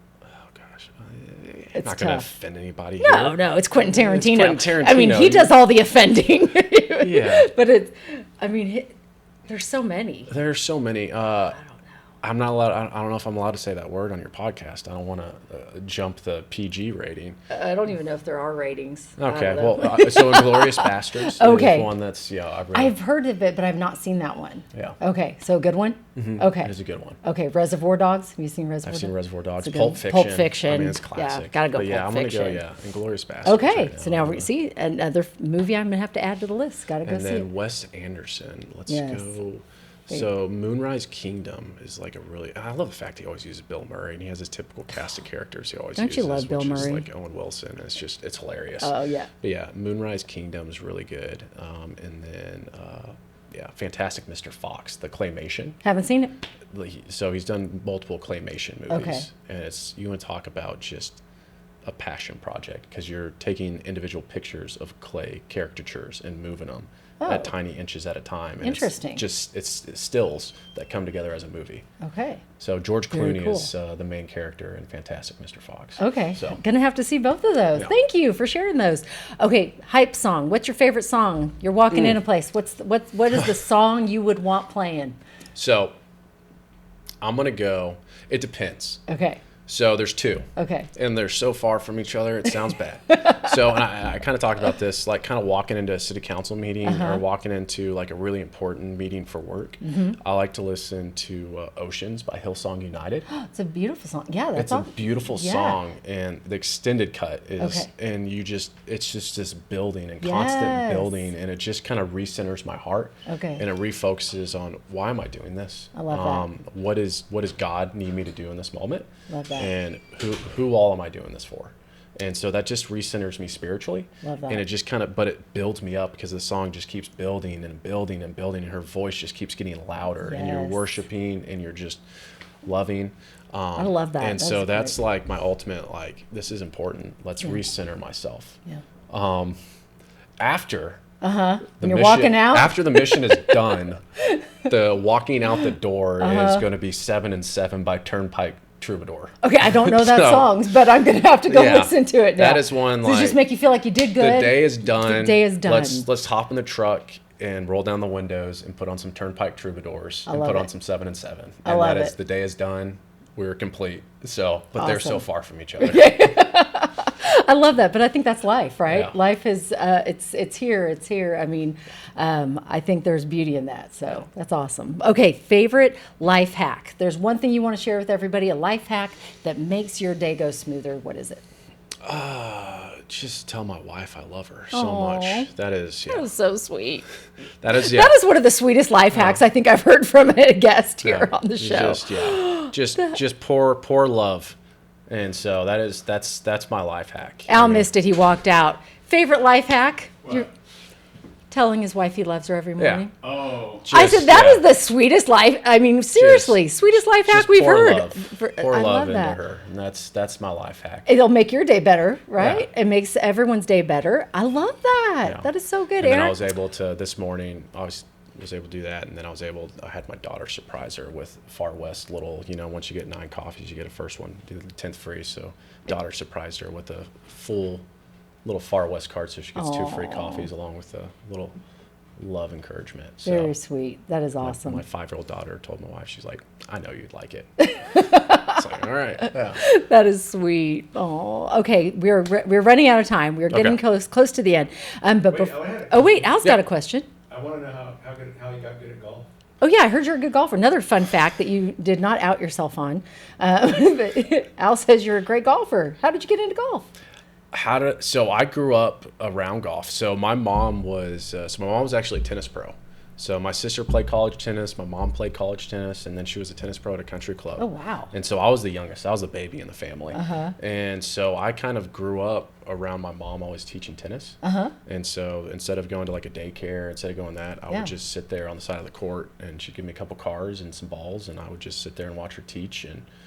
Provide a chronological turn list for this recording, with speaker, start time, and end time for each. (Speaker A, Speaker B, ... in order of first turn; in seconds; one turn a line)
Speaker A: 0.3-5.5
Speaker B: 1.7-2.2
Speaker B: 3.0-8.9
Speaker A: 7.0-7.5
Speaker B: 9.5-10.3
Speaker A: 10.3-11.6
Speaker A: 12.2-17.4
Speaker B: 17.5-21.9
Speaker A: 19.2-22.9
Speaker B: 22.7-32.6
Speaker A: 26.1-27.2
Speaker A: 28.8-34.5
Speaker B: 33.4-37.5
Speaker A: 37.0-55.8
Speaker B: 38.9-39.3
Speaker B: 46.0-47.0
Speaker B: 48.8-49.3
Speaker B: 55.8-56.4
Speaker A: 56.7-61.2
Speaker B: 58.9-59.3
Speaker A: 61.8-71.8
Speaker B: 67.2-67.5
Speaker B: 68.6-69.2
Speaker B: 72.0-72.4
Speaker A: 72.6-76.6
Speaker B: 73.1-73.7
Speaker B: 76.0-85.2
Speaker A: 85.5-85.9
Speaker A: 87.2-89.0
Speaker B: 89.1-89.4
Speaker A: 89.7-103.2
Speaker B: 90.5-90.9
Speaker B: 93.1-93.8
Speaker B: 96.8-97.2
Speaker B: 99.8-100.2
Speaker B: 103.3-105.8
Speaker A: 104.5-132.0
Speaker B: 107.6-107.9
Speaker B: 110.2-111.3
Speaker B: 113.3-113.6
Speaker B: 115.9-116.5
Speaker B: 119.3-119.7
Speaker B: 124.2-124.6
Speaker B: 130.2-130.9
Speaker A: 132.6-138.6
Speaker B: 133.8-134.9
Speaker A: 139.1-139.6
Speaker A: 140.4-141.0
Speaker B: 141.2-144.7
Speaker A: 141.8-144.0
Speaker A: 144.7-150.5
Speaker B: 146.2-146.7
Speaker B: 149.4-156.1
Speaker A: 151.5-153.4
Speaker A: 154.1-166.3
Speaker B: 160.3-160.7
Speaker B: 161.6-162.1
Speaker B: 164.8-165.2
Speaker B: 165.8-181.4
Speaker A: 168.9-169.1
Speaker A: 182.0-186.3
Speaker B: 184.7-185.5
Speaker B: 186.1-187.1
Speaker A: 187.6-188.2
Speaker B: 187.7-193.1
Speaker A: 191.0-194.6
Speaker A: 195.1-197.9
Speaker B: 197.5-200.5
Speaker B: 201.5-203.1
Speaker A: 202.8-203.1
Speaker C: 203.2-203.8
Speaker A: 203.8-204.7
Speaker B: 203.8-209.4
Speaker A: 206.2-206.6
Speaker A: 207.2-211.1
Speaker B: 211.1-216.4
Speaker A: 212.4-212.7
Speaker A: 216.0-227.8
Speaker A: 228.4-231.5
Speaker B: 229.6-230.5
Speaker A: 232.2-233.5
Speaker B: 233.2-234.8
Speaker A: 234.4-239.6
Speaker B: 237.6-238.7
Speaker B: 239.2-247.1
Speaker A: 243.5-243.8
Speaker C: 245.3-246.2
Speaker C: 247.3-249.2
Speaker B: 249.6-256.9
Speaker A: 257.5-283.1
Speaker B: 267.6-268.1
Speaker B: 270.1-270.5
Speaker B: 274.4-274.7